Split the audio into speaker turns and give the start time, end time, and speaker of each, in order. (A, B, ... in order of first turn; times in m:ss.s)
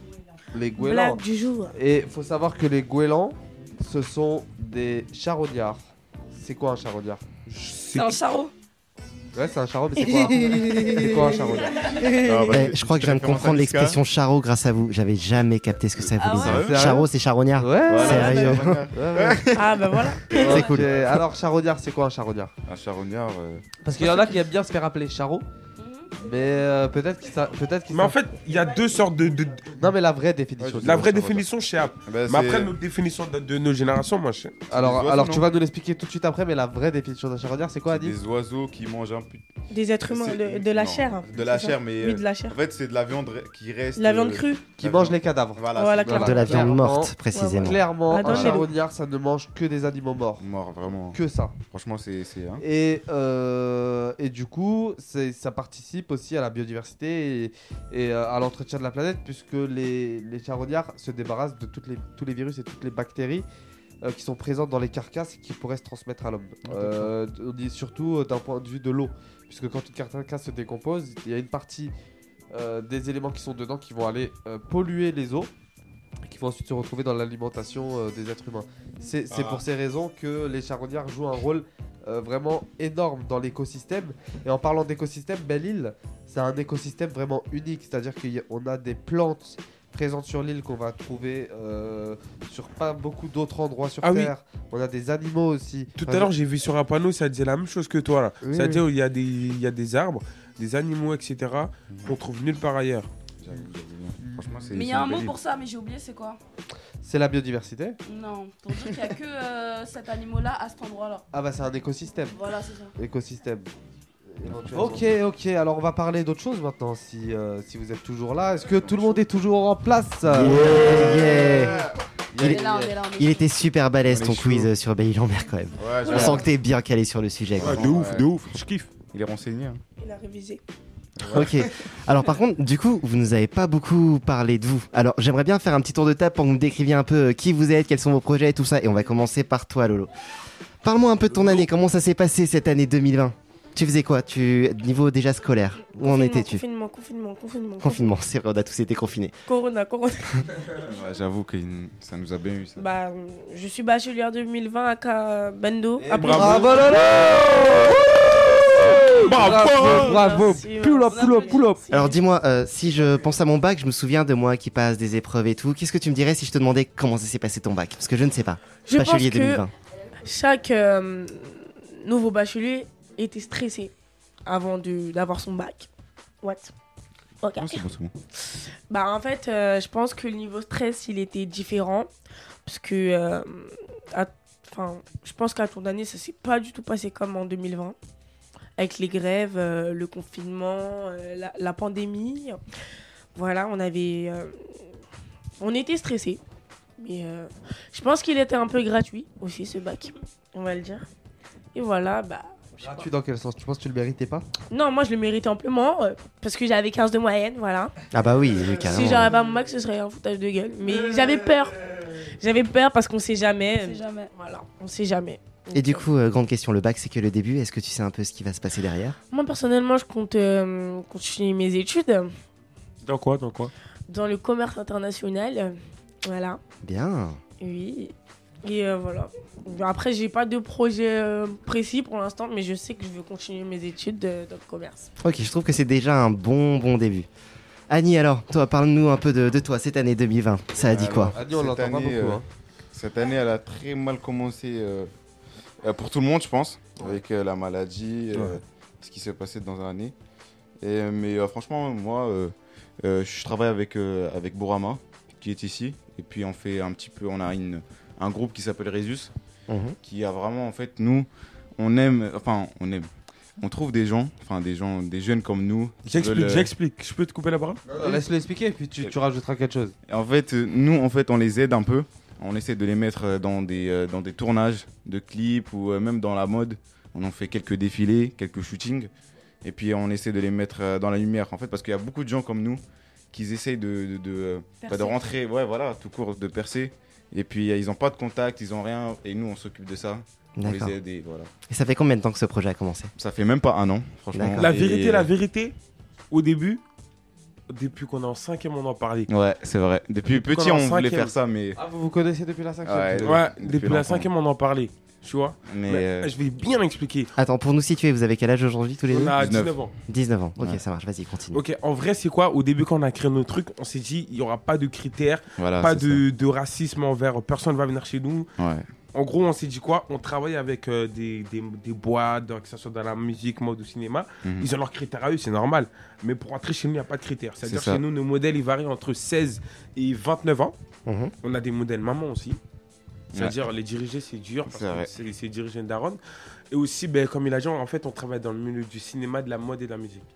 0:00.5-0:07.2 A
0:00.8-0:01.8 B
0:07.5-0:08.2 C
0:07.9-0:08.5 D
0:09.3-0:12.4 A
0:10.0-0:12.4 B
0:12.2-0:14.0 E
0:12.5-0:18.9 F
0:16.2-0:16.6 D
0:16.4-0:17.0 E
0:16.6-0:19.5 A
0:17.9-0:21.2 E
0:19.6-0:20.7 B
0:20.3-0:22.5 A
0:20.4-0:21.1 F
0:22.7-0:23.6 E
0:23.8-0:25.4 A
0:25.8-0:26.1 D
0:26.2-0:28.2 A
0:27.9-0:29.7 C
0:29.8-0:31.4 A
0:30.6-0:31.4 E
0:30.8-0:34.6 C
0:32.0-0:32.8 E
0:34.7-0:35.5 E
0:34.7-0:38.2 A
0:37.9-0:39.4 E
0:39.7-0:42.6 B
0:40.0-0:46.7 E
0:44.0-0:44.7 B
0:44.8-0:50.5 A
0:45.8-0:46.7 B
0:46.2-0:47.8 F
0:47.3-0:48.7 B
0:48.3-0:48.6 E
0:50.4-0:52.6 E
0:51.1-0:51.6 A
0:52.6-1:03.5 A
1:04.0-1:11.9 A
1:06.7-1:07.1 E
1:12.5-1:15.5 A
1:16.2-1:36.3 A
1:34.0-1:34.3 C
1:36.0-1:43.1 C
1:38.4-1:38.8 A
1:43.4-1:45.4 E
1:44.2-1:44.6 A
1:44.7-1:46.4 D
1:47.0-1:48.0 A
1:48.0-1:51.2 D
1:51.3-1:52.4 A
1:52.3-1:52.9 D
1:53.0-1:53.7 A
1:54.3-2:00.9 A
1:54.5-1:55.1 E
1:58.7-1:59.2 E
2:00.5-2:01.9 E
2:00.6-2:01.8 F
2:02.3-2:03.0 A
2:02.4-2:03.5 D
2:03.2-2:08.0 F
2:04.1-2:04.7 E
2:05.8-2:06.5 E
2:07.6-2:08.4 E
2:07.6-2:08.9 C
2:09.1-2:09.8 E
2:10.0-2:10.6 B
2:11.2-2:11.7 E
2:11.3-2:20.1 F
2:20.8-2:26.6 F
2:26.0-2:28.2 B
2:27.8-2:29.4 F
2:29.5-2:30.5 B
2:30.8-2:32.9 E
2:32.8-2:36.8 B
2:36.0-2:37.8 A
2:36.1-2:37.9 C
2:38.9-2:41.8 A
2:38.9-2:40.4 C
2:39.4-2:42.2 B
2:41.1-2:41.6 D
2:41.9-2:49.7 F
2:48.9-2:49.6 B
2:50.2-2:53.9 B
2:54.5-2:55.9 B
2:56.4-2:56.7 B
2:57.4-2:57.8 B
2:57.6-2:58.1 E
2:58.9-3:02.1 B
3:02.7-3:08.0 B
3:08.8-3:12.6 B
3:13.4-3:14.5 B
3:15.6-3:16.4 B
3:17.0-3:21.1 B
3:21.7-3:23.1 B
3:22.8-3:24.4 A
3:24.7-3:27.9 B
3:28.1-3:29.3 F
3:28.8-3:36.1 B
3:30.9-3:31.2 A
3:33.8-3:34.3 D
3:35.7-3:39.2 F
3:39.3-3:42.3 B
3:43.0-3:43.7 C
3:44.1-3:46.6 B
3:46.8-3:47.4 F
3:47.6-3:55.1 B
3:55.2-3:57.3 F
3:57.9-4:01.4 F
4:00.8-4:02.4 E
4:01.0-4:02.4 A
4:02.9-4:05.1 E
4:05.8-4:10.1 E
4:10.8-4:19.3 E
4:19.7-4:20.0 F
4:20.0-4:23.1 E
4:23.6-4:26.7 E
4:26.1-4:27.8 C
4:27.9-4:30.0 A
4:30.1-4:39.1 E
4:39.6-4:51.5 E
4:44.8-4:45.3 D
4:50.6-4:51.0 F
4:51.7-4:53.1 F
4:53.2-4:55.3 E
4:54.3-4:54.7 F
4:54.6-4:55.8 C
4:56.3-4:56.8 C
4:57.7-4:59.3 C
4:59.3-5:01.8 E
5:00.3-5:01.3 C
5:01.8-5:03.4 A
5:02.8-5:04.3 E
5:03.3-5:07.3 C
5:05.7-5:06.3 E
5:07.4-5:11.6 F
5:09.1-5:09.9 C
5:09.4-5:09.8 E
5:11.5-5:18.5 C
5:15.6-5:16.2 E
5:18.6-5:18.9 E
5:19.1-5:30.8 C
5:24.4-5:24.7 E
5:27.6-5:28.0 E
5:31.1-5:31.3 F
5:31.4-5:32.6 C
5:33.3-5:33.6 E
5:33.3-5:36.2 C
5:34.7-5:35.1 E
5:36.7-5:40.3 C